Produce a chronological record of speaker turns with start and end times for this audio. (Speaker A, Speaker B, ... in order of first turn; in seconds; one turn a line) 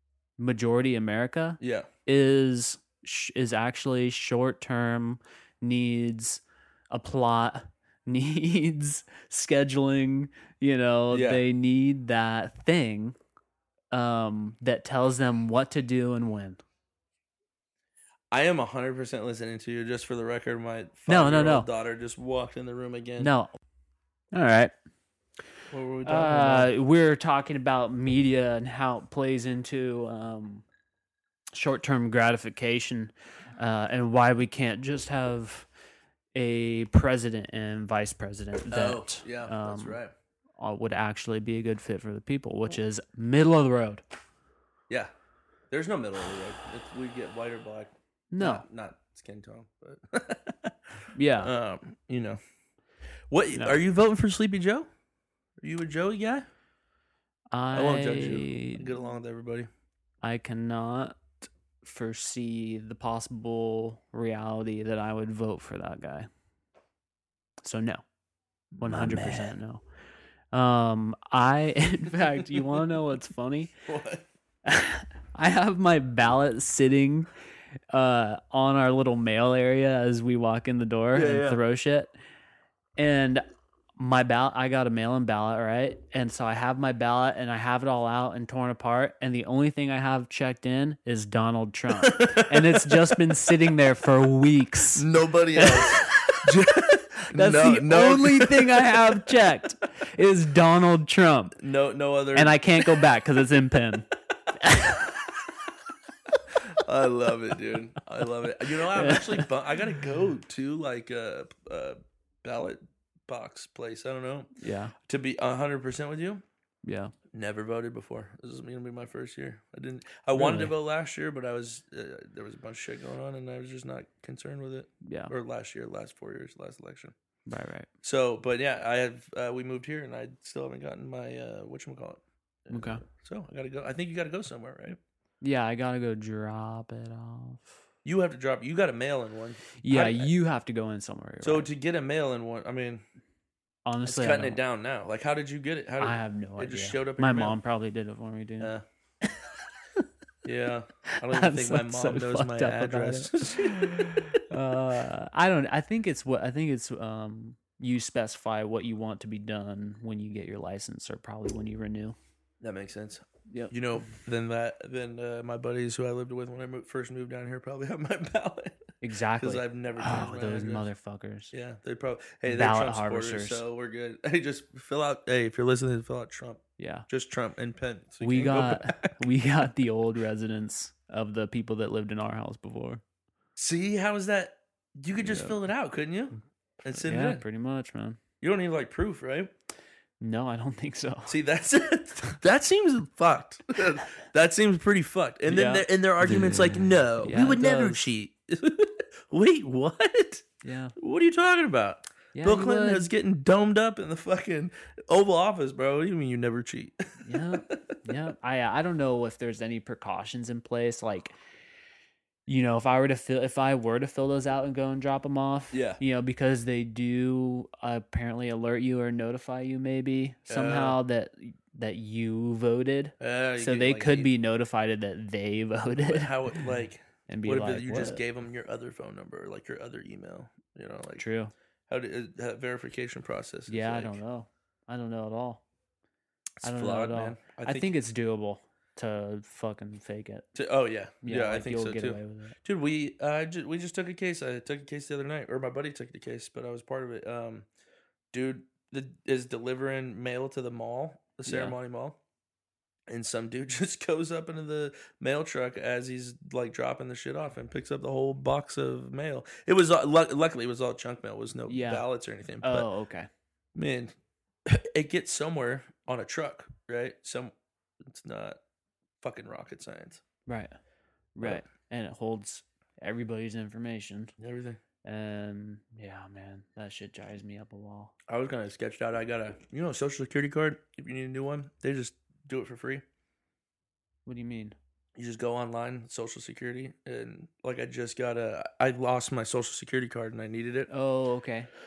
Speaker A: 0.4-13.2
Speaker B: 1.6-1.9
Speaker B: 11.1-11.4
Speaker A: 13.9-16.6
Speaker B: 18.3-23.3
Speaker A: 21.1-21.7
Speaker A: 23.2-23.5
Speaker A: 24.3-24.7
Speaker B: 25.7-26.7
Speaker A: 26.0-30.6
Speaker A: 31.5-35.7
Speaker A: 36.3-40.0
Speaker B: 38.7-40.1
Speaker A: 40.6-44.0
Speaker B: 45.7-50.8
Speaker A: 48.3-48.6
Speaker A: 51.1-51.5
Speaker B: 51.4-52.4
Speaker B: 53.3-54.9
Speaker A: 53.5-53.8
Speaker B: 55.6-56.4
Speaker A: 57.5-58.9
Speaker B: 57.7-59.7
Speaker A: 60.2-61.2
Speaker A: 61.8-66.3
Speaker A: 67.6-68.0
Speaker B: 68.8-69.5
Speaker A: 68.8-69.8
Speaker A: 70.5-73.7
Speaker B: 73.9-74.3
Speaker A: 74.6-77.3
Speaker A: 77.9-82.1
Speaker B: 81.1-81.6
Speaker A: 83.0-83.4
Speaker A: 84.0-96.6
Speaker B: 92.0-93.2
Speaker B: 94.9-99.4
Speaker A: 97.3-101.6
Speaker B: 101.6-103.0
Speaker A: 102.3-105.2
Speaker B: 106.3-114.5
Speaker A: 108.6-109.5
Speaker A: 114.6-114.9
Speaker B: 115.0-116.4
Speaker A: 116.8-117.1
Speaker B: 117.3-127.1
Speaker A: 120.3-120.7
Speaker A: 125.0-125.3
Speaker A: 127.5-127.9
Speaker B: 128.0-135.0
Speaker A: 132.7-133.0
Speaker A: 135.4-137.7
Speaker B: 138.0-140.3
Speaker A: 139.8-141.7
Speaker B: 141.4-143.0
Speaker A: 143.8-144.6
Speaker B: 144.0-147.6
Speaker A: 146.0-148.7
Speaker B: 150.4-154.4
Speaker A: 151.1-162.2
Speaker B: 162.6-170.9
Speaker A: 163.5-163.7
Speaker A: 169.0-171.5
Speaker B: 171.5-179.1
Speaker A: 172.4-173.6
Speaker A: 176.8-177.1
Speaker A: 178.2-183.0
Speaker B: 183.6-187.4
Speaker A: 185.2-185.6
Speaker A: 186.9-188.2
Speaker B: 188.4-189.5
Speaker A: 190.2-191.3
Speaker B: 191.3-200.4
Speaker A: 195.5-198.1
Speaker A: 200.6-200.9
Speaker B: 201.0-207.8
Speaker A: 202.3-203.1
Speaker A: 207.2-211.4
Speaker A: 212.5-226.7
Speaker B: 215.7-216.0
Speaker B: 220.5-221.0
Speaker B: 223.2-224.3
Speaker B: 226.0-231.2
Speaker A: 227.3-228.2
Speaker A: 231.2-231.5
Speaker B: 231.9-234.2
Speaker A: 233.7-235.6
Speaker B: 236.6-237.9
Speaker A: 236.6-240.5
Speaker B: 240.5-247.7
Speaker A: 241.2-242.6
Speaker B: 248.3-252.2
Speaker A: 251.4-251.7
Speaker B: 253.1-262.9
Speaker A: 261.7-262.0
Speaker A: 262.6-263.3
Speaker B: 263.7-264.1
Speaker B: 264.6-268.6
Speaker B: 269.2-270.2
Speaker A: 270.5-270.7
Speaker A: 271.4-274.3
Speaker B: 274.4-274.8
Speaker A: 275.0-278.1
Speaker B: 278.3-283.0
Speaker A: 284.2-284.8
Speaker B: 285.1-290.9
Speaker A: 290.9-291.7